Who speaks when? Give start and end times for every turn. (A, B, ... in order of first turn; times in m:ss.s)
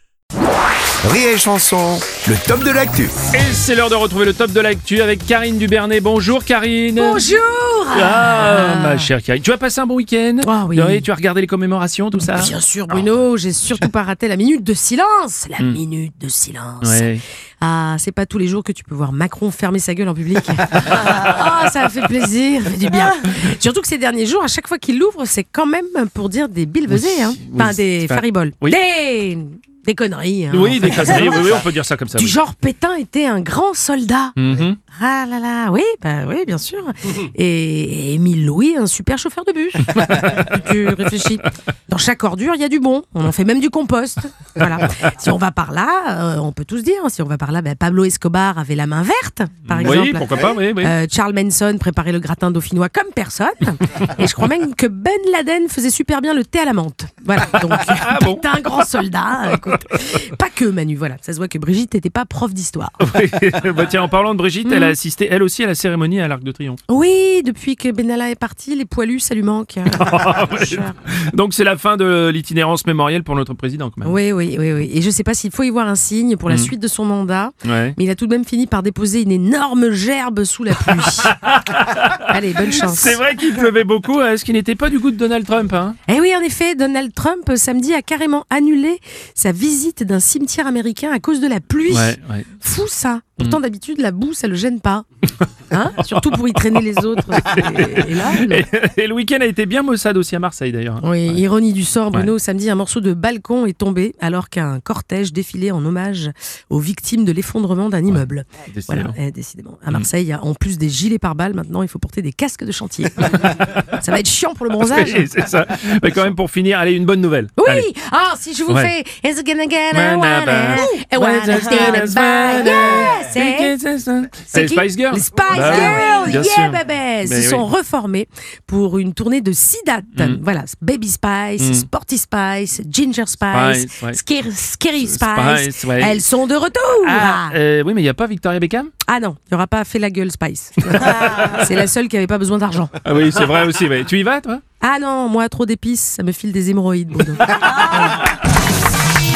0:01.0-0:03.1 A
0:03.3-0:07.4 B
0:07.0-0:09.1 C
0:07.9-0:12.9 B
0:10.4-0:11.1 C
0:12.1-0:17.1 C
0:16.8-0:17.2 B
0:17.6-0:34.4 C
0:26.9-0:28.8 B
0:30.5-0:32.4 B
0:34.4-0:34.8 B
0:34.9-1:03.0 C
0:39.8-0:40.5 B
0:44.7-0:44.9 B
0:49.7-0:51.0 B
0:57.5-0:58.5 B
0:59.6-0:59.9 B
1:03.0-1:06.8 B
1:04.6-1:05.0 C
1:06.9-1:11.0 C
1:09.9-1:14.2 B
1:14.0-1:21.4 C
1:16.5-1:16.7 B
1:17.6-1:18.0 B
1:20.8-1:26.0 B
1:22.3-1:23.2 C
1:26.1-1:35.0 C
1:31.9-1:32.5 B
1:35.7-1:38.7 C
1:36.0-1:41.4 B
1:41.0-1:55.3 C
1:48.1-1:49.2 B
1:53.3-1:53.8 B
1:54.8-1:57.9 B
1:57.6-2:03.8 C
1:59.9-2:07.7 B
2:04.5-2:17.6 C
2:10.1-2:10.4 B
2:11.6-2:11.9 B
2:13.5-2:14.2 B
2:15.0-2:16.3 B
2:17.0-2:18.9 B
2:19.0-2:22.9 C
2:20.9-2:21.7 B
2:23.0-2:24.6 B
2:24.8-2:27.6 C